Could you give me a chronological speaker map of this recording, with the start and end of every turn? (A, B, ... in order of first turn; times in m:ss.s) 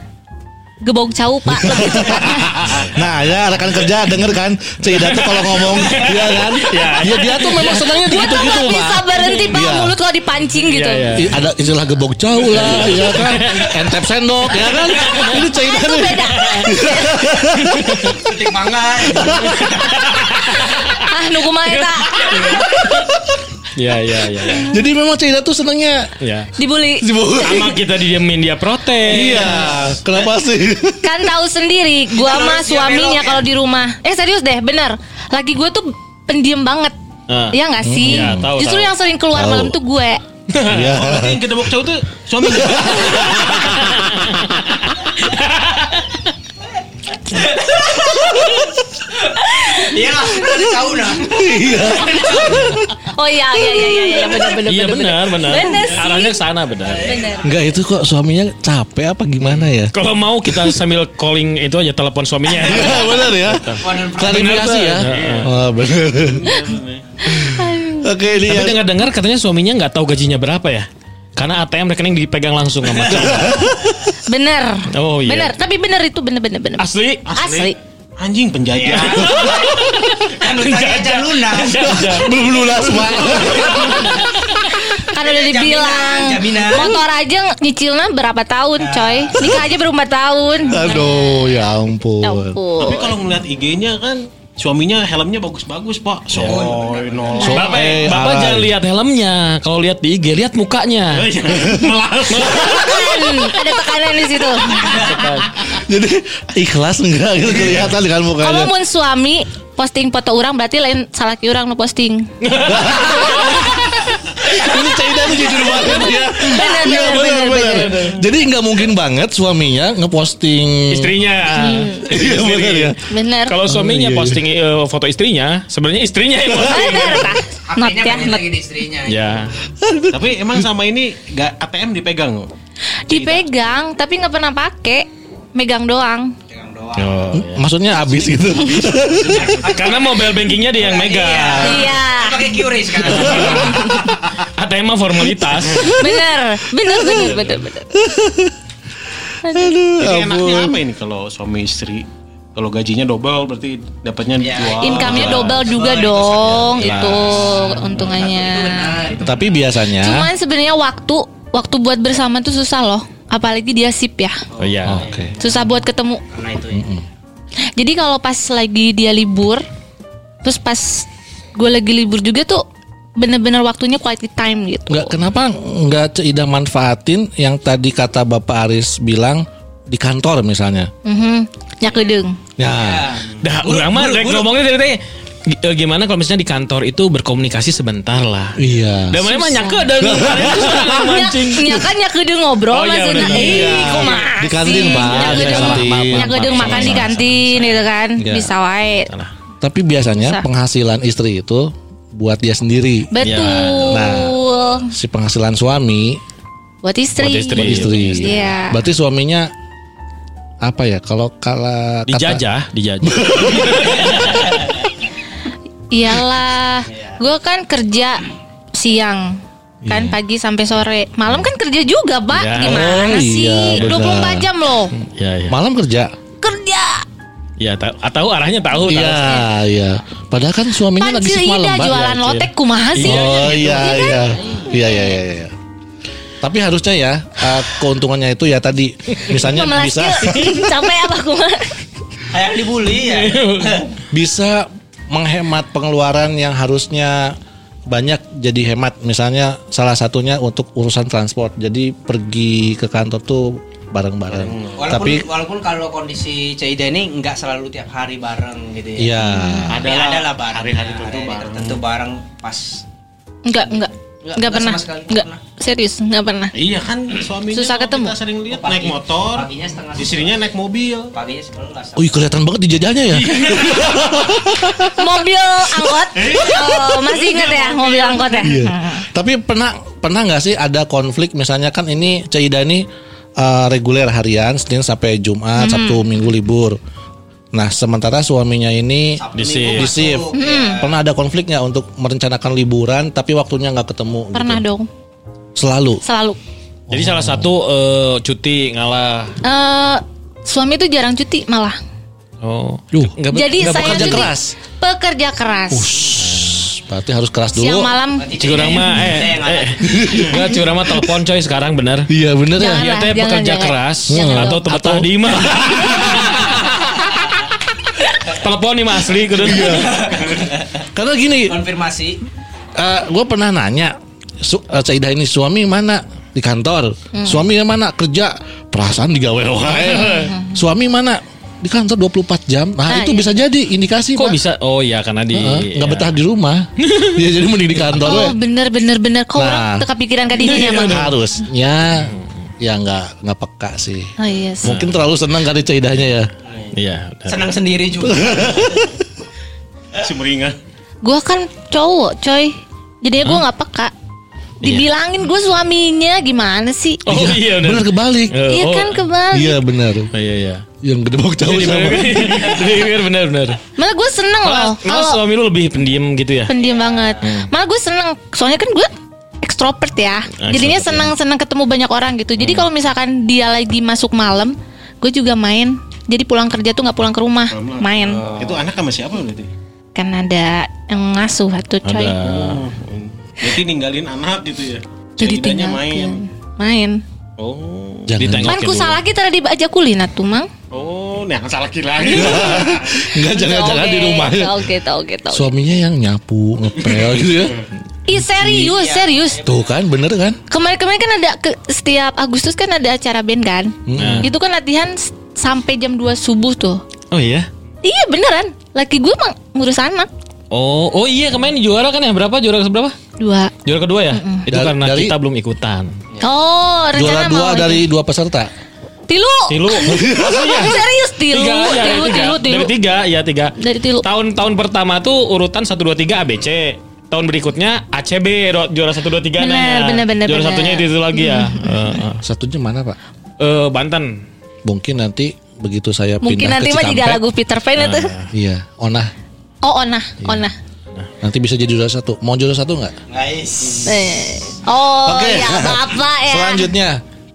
0:00.8-0:02.8 A
0:01.5-0:10.0 B
0:04.8-0:08.1 C
0:08.0-0:11.2 A
0:10.6-0:11.4 C
0:11.2-0:18.1 B
0:12.4-0:13.9 C
0:14.9-0:15.4 C
0:15.3-0:17.3 A
0:16.3-0:16.7 C
0:17.6-0:18.2 C
0:18.1-0:20.0 D
0:19.1-0:19.7 B
0:19.3-0:21.1 C
0:20.9-0:22.6 A
0:21.6-0:23.1 C
0:22.9-0:23.4 B
0:23.7-0:24.7 C
0:24.5-0:26.1 B
0:26.2-0:26.5 C
0:26.6-0:27.1 A
0:27.0-0:27.8 B
0:27.4-0:29.8 C
0:29.1-0:31.1 B
0:31.0-0:37.0 A
0:32.1-0:33.4 D
0:37.3-0:38.9 C
0:37.5-0:40.2 A
0:37.8-0:38.5 B
0:39.4-0:39.8 B
0:40.5-0:40.9 C
0:40.7-0:41.4 B
0:40.8-0:43.4 E
0:42.5-0:43.8 B
0:43.1-0:46.2 C
0:47.3-0:52.8 D
0:49.6-0:49.9 A
0:51.3-0:52.9 B
0:53.1-0:56.4 A
0:54.6-0:57.1 C
0:56.8-0:57.7 D
0:57.0-0:57.5 A
0:57.4-0:59.9 B
0:59.4-1:05.5 C
1:00.5-1:00.8 B
1:02.6-1:06.5 B
1:03.8-1:04.9 D
1:05.0-1:07.1 E
1:07.3-1:08.1 A
1:07.3-1:08.8 B
1:08.4-1:13.7 C
1:13.1-1:14.0 B
1:14.3-1:17.8 A
1:14.9-1:15.6 C
1:16.8-1:17.3 C
1:17.2-1:19.4 E
1:18.7-1:24.3 D
1:19.2-1:22.4 C
1:21.8-1:24.2 B
1:23.3-1:24.3 C
1:24.9-1:27.0 D
1:25.0-1:31.5 A
1:28.8-1:29.7 D
1:30.7-1:31.1 D
1:30.7-1:32.6 B
1:32.2-1:33.2 A
1:32.8-1:38.0 E
1:36.4-1:36.6 C
1:36.4-1:37.8 D
1:37.4-1:37.7 A
1:37.4-1:38.7 B
1:37.5-1:41.3 C
1:41.1-1:42.8 E
1:42.3-1:42.8 C
1:42.4-1:45.0 A
1:44.9-1:45.5 C
1:45.7-1:48.7 B
1:48.4-1:52.3 A
1:52.4-1:53.8 C
1:52.6-1:53.8 B
1:54.4-2:01.2 B
1:55.6-1:58.0 A
1:56.9-1:58.2 C
2:00.9-2:07.4 C
2:01.5-2:02.1 A
2:02.0-2:03.0 B
2:03.1-2:03.6 A
2:03.7-2:04.4 B
2:06.5-2:06.8 B
2:06.6-2:08.5 A
2:07.7-2:09.5 D
2:09.1-2:09.5 C
2:09.8-2:10.6 B
2:10.1-2:12.5 E
2:13.1-2:16.4 A
2:13.1-2:13.4 E
2:16.5-2:17.4 D
2:17.0-2:17.6 C
2:17.3-2:19.7 B
2:19.2-2:24.0 D
2:19.6-2:22.0 C
2:21.6-2:22.6 A
2:23.0-2:26.0 C
2:23.1-2:24.0 B
2:23.6-2:24.1 A
2:25.8-2:28.0 A
2:27.9-2:28.6 B
2:29.4-2:29.7 A
2:29.4-2:30.8 B
2:30.0-2:36.1 E
2:34.4-2:39.6 D
2:34.8-2:39.0 A
2:35.0-2:35.7 C
2:36.8-2:37.7 C
2:39.2-2:40.3 B
2:40.0-2:44.4 A
2:44.5-2:46.9 D
2:44.6-2:45.1 C
2:44.8-2:45.3 B
2:45.4-2:46.2 A
2:46.7-2:47.0 B
2:47.8-2:49.6 A
2:50.4-2:52.6 A
2:53.2-2:55.1 A
2:54.9-3:00.9 B
3:01.0-3:02.4 A
3:02.6-3:03.2 B
3:02.7-3:04.5 D
3:03.4-3:08.6 C
3:08.6-3:09.2 B
3:09.1-3:11.8 C
3:09.2-3:19.1 A
3:10.0-3:11.1 B
3:12.7-3:17.7 C
3:13.2-3:17.2 B
3:18.2-3:18.5 B
3:19.6-3:23.3 B
3:20.2-3:20.4 A
3:23.1-3:24.9 A
3:23.2-3:24.0 C
3:23.8-3:24.4 B
3:24.9-3:26.2 B
3:26.8-3:28.8 A
3:27.2-3:28.4 C
3:27.6-3:29.5 B
3:30.6-3:32.4 B
3:32.1-3:34.6 C
3:33.0-3:34.1 B
3:35.9-3:44.9 A
3:39.8-3:40.2 B
3:42.3-3:43.1 C
3:42.6-3:44.5 B
3:45.0-3:45.6 C
3:45.5-3:46.1 B
3:46.4-3:47.0 A
3:47.6-3:49.5 C
3:48.8-3:52.0 B
3:51.0-3:55.0 A
3:51.8-3:53.8 C
3:53.0-3:55.5 B
3:56.4-4:00.6 B
3:59.3-4:01.7 A
4:02.3-4:03.9 D
4:03.0-4:03.9 C
4:04.1-4:07.4 B
4:07.9-4:15.2 B
4:14.3-4:15.0 E
4:14.8-4:19.2 D
4:19.0-4:19.9 B
4:19.2-4:19.7 A
4:19.7-4:21.8 E
4:19.8-4:22.8 D
4:23.5-4:26.5 A
4:23.7-4:25.4 D
4:26.5-4:31.1 E
4:27.5-4:28.2 A
4:28.5-4:30.4 D
4:31.1-4:32.2 D
4:32.0-4:35.0 B
4:35.0-4:39.0 A
4:36.1-4:38.4 E
4:38.4-4:42.9 B
4:43.4-4:46.8 B
4:45.6-4:46.1 A
4:47.5-4:54.6 B
4:49.2-4:51.0 D
4:49.3-4:50.0 C
4:50.3-4:50.8 A
4:54.3-4:54.9 A
4:55.6-4:56.0 B
4:56.0-4:56.4 A
4:56.9-4:57.5 B
4:56.9-4:59.4 C
4:59.4-5:01.8 A
5:02.4-5:04.3 C
5:02.9-5:04.6 B
5:03.3-5:05.9 A
5:05.7-5:08.0 B
5:06.2-5:06.6 C
5:07.6-5:08.4 A
5:08.2-5:10.2 D
5:08.4-5:12.1 C
5:09.8-5:10.9 B
5:12.1-5:12.9 B
5:12.6-5:14.6 A
5:12.7-5:16.7 C
5:14.1-5:16.4 B
5:18.1-5:20.1 C
5:19.4-5:20.2 B
5:19.6-5:20.8 D
5:20.9-5:21.6 B
5:21.5-5:22.2 D
5:22.8-5:34.4 B
5:27.1-5:27.4 A
5:29.7-5:30.3 C
5:29.9-5:30.6 A
5:32.9-5:33.4 A
5:34.2-5:36.2 C
5:35.3-5:38.4 B
5:36.8-5:37.2 C
5:38.0-5:41.1 A
5:39.4-5:39.8 B
5:40.4-5:41.1 C
5:40.7-5:46.3 B
5:41.9-5:42.3 C
5:44.2-5:44.7 A
5:44.6-5:45.0 C
5:46.4-5:46.8 D
5:46.7-5:47.5 C
5:47.3-5:48.9 D
5:48.0-5:49.0 B
5:50.0-5:50.6 E
5:51.0-5:53.9 A
5:54.6-5:57.0 A
5:57.1-5:59.1 C
5:57.1-5:58.4 B
5:58.5-5:59.6 A
5:59.3-6:00.1 B
6:00.1-6:00.6 C
6:00.8-6:02.6 B
6:01.4-6:03.6 C
6:03.8-6:05.2 A
6:04.4-6:06.5 C
6:06.5-6:08.9 A
6:06.5-6:07.3 D
6:07.2-6:07.5 C
6:09.4-6:18.2 A
6:10.4-6:11.1 C
6:12.4-6:12.7 C
6:17.5-6:19.5 E
6:18.0-6:18.7 D
6:20.0-6:22.2 A
6:21.8-6:22.6 C
6:22.2-6:26.2 E
6:25.2-6:27.0 A
6:27.4-6:28.2 E
6:28.1-6:28.6 B
6:28.2-6:29.0 C
6:28.5-6:30.5 A
6:30.7-6:32.9 E
6:32.0-6:34.6 B
6:33.1-6:35.5 A
6:35.3-6:37.6 B
6:38.1-6:39.4 A
6:38.4-6:39.8 D
6:39.4-6:40.4 B
6:40.5-6:46.8 A
6:43.9-6:44.3 B
6:44.0-6:44.3 C
6:47.1-6:47.5 C
6:47.8-6:50.1 A
6:50.5-6:53.0 C
6:53.2-6:53.6 A
6:53.6-6:55.9 C
6:54.1-6:54.5 A
6:54.5-6:55.2 B
6:56.2-6:57.8 A
6:56.9-6:58.5 B
6:59.1-7:02.7 A
6:59.5-7:12.2 C
6:59.8-7:00.7 B
7:03.6-7:04.1 A
7:09.4-7:11.8 A
7:12.2-7:13.0 B
7:13.4-7:14.2 C
7:14.6-7:17.2 B
7:16.2-7:18.1 A
7:17.8-7:18.3 C
7:18.3-7:19.1 B
7:19.6-7:20.5 A
7:21.2-7:22.9 B
7:23.1-7:24.0 D
7:23.8-7:26.7 A
7:25.0-7:27.0 B